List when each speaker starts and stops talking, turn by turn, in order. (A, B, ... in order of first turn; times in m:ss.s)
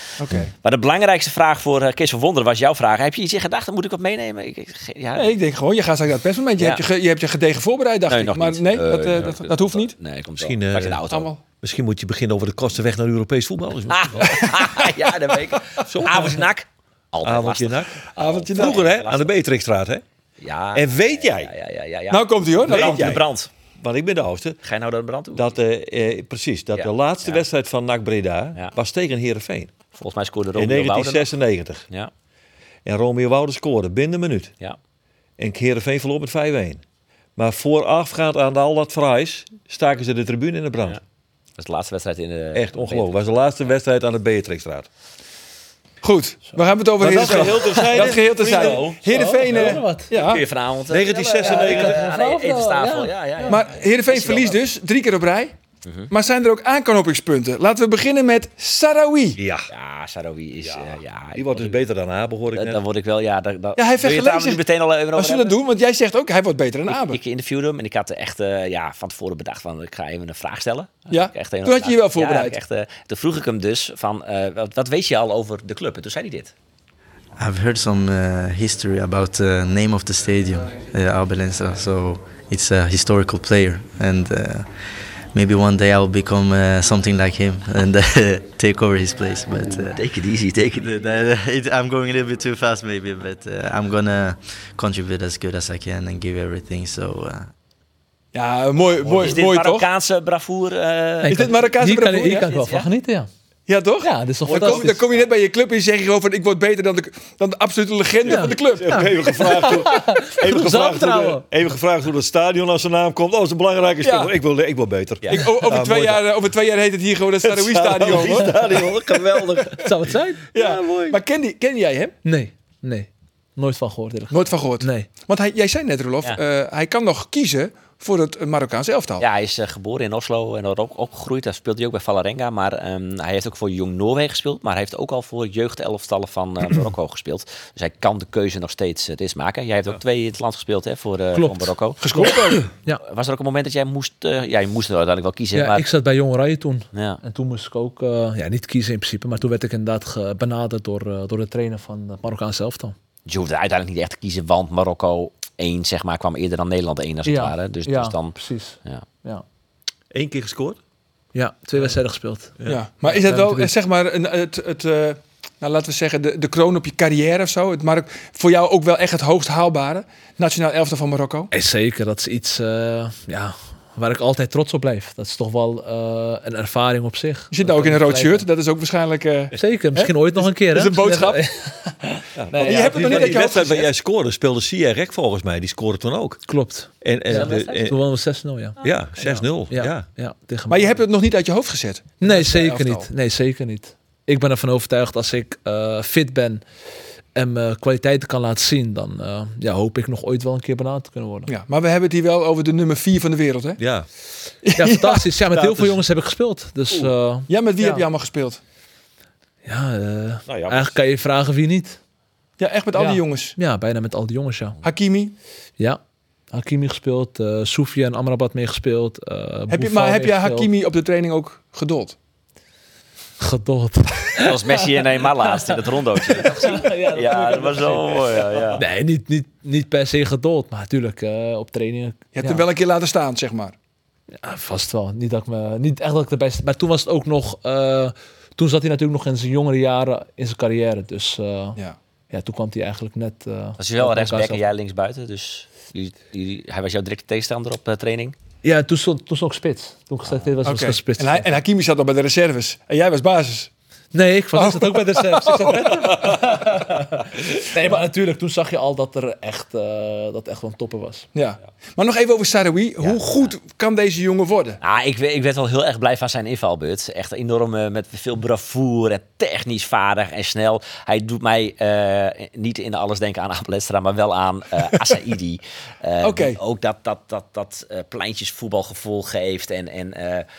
0:00.2-0:00.5 A
0:00.6-0:05.4 B
0:05.2-0:09.9 A
0:06.6-0:06.8 B
0:08.1-0:11.3 B
0:10.4-0:11.0 C
0:11.1-0:11.4 A
0:11.6-0:14.7 C
0:13.9-0:19.3 B
0:15.8-0:16.5 C
0:17.2-0:20.0 C
0:18.2-0:18.8 A
0:20.4-0:23.5 B
0:20.7-0:21.5 C
0:22.1-0:23.2 A
0:22.6-0:23.2 C
0:23.8-0:24.6 C
0:24.6-0:25.6 B
0:25.3-0:29.7 C
0:26.8-0:27.4 B
0:30.0-0:31.3 B
0:30.6-0:31.8 C
0:32.8-0:34.5 C
0:35.4-0:36.8 C
0:37.4-0:41.0 C
0:41.6-0:43.1 B
0:42.5-0:44.9 C
0:46.0-0:50.4 A
0:47.0-0:49.6 C
0:47.3-0:48.9 B
0:49.1-0:50.1 D
0:50.1-0:54.6 B
0:50.9-0:52.1 C
0:51.4-0:53.6 D
0:53.5-0:55.5 A
0:55.8-0:56.1 B
0:56.1-0:59.4 A
0:59.4-0:59.7 C
0:59.7-1:01.8 B
1:00.6-1:02.8 C
1:02.5-1:05.6 B
1:03.8-1:07.2 A
1:06.9-1:16.5 B
1:11.1-1:12.6 A
1:17.4-1:24.7 E
1:25.3-1:30.0 E
1:30.0-1:30.9 B
1:30.7-1:37.5 E
1:38.3-1:39.9 A
1:39.0-1:41.6 B
1:41.2-1:43.3 D
1:41.3-1:42.5 A
1:42.2-1:42.9 B
1:43.7-1:49.7 A
1:44.0-1:45.0 D
1:44.5-1:45.1 C
1:48.3-1:51.4 D
1:48.3-1:56.3 C
1:54.0-1:54.3 A
1:55.3-1:59.7 A
1:57.4-2:01.2 C
1:59.8-2:00.4 D
2:00.5-2:02.2 A
2:02.2-2:05.1 D
2:04.3-2:09.2 A
2:09.2-2:22.3 B
2:21.3-2:23.0 D
2:22.0-2:22.7 A
2:23.0-2:25.9 B
2:25.6-2:33.0 D
2:26.9-2:27.2 B
2:33.3-2:39.0 B
2:37.2-2:39.4 D
2:40.1-2:40.8 C
2:41.3-2:43.7 D
2:42.6-2:51.5 A
2:51.5-2:58.5 D
2:57.5-3:01.4 A
2:59.5-3:03.4 D
3:02.4-3:08.0 C
3:02.6-3:03.9 A
3:06.5-3:11.0 D
3:08.8-3:10.1 C
3:10.7-3:13.1 A
3:12.2-3:16.6 D
3:17.4-3:21.5 D
3:21.5-3:23.8 A
3:23.8-3:24.1 C
3:24.6-3:25.2 A
3:24.8-3:28.1 D
3:25.5-3:26.0 C
3:27.5-3:28.6 A
3:29.6-3:32.0 D
3:30.5-3:31.0 C
3:32.6-3:33.6 A
3:33.0-3:34.8 D
3:34.8-3:35.3 A
3:36.5-3:40.7 D
3:39.7-3:42.2 A
3:43.4-3:52.6 D
3:44.4-3:48.8 B
3:52.4-3:53.8 A
3:54.3-4:01.8 D
4:02.3-4:04.6 D
4:03.8-4:08.4 B
4:08.6-4:11.5 D
4:10.6-4:13.7 A
4:14.1-4:21.3 D
4:14.6-4:16.6 A
4:21.3-4:24.8 A
4:23.0-4:23.5 B
4:24.8-4:40.5 B
4:36.2-4:36.6 A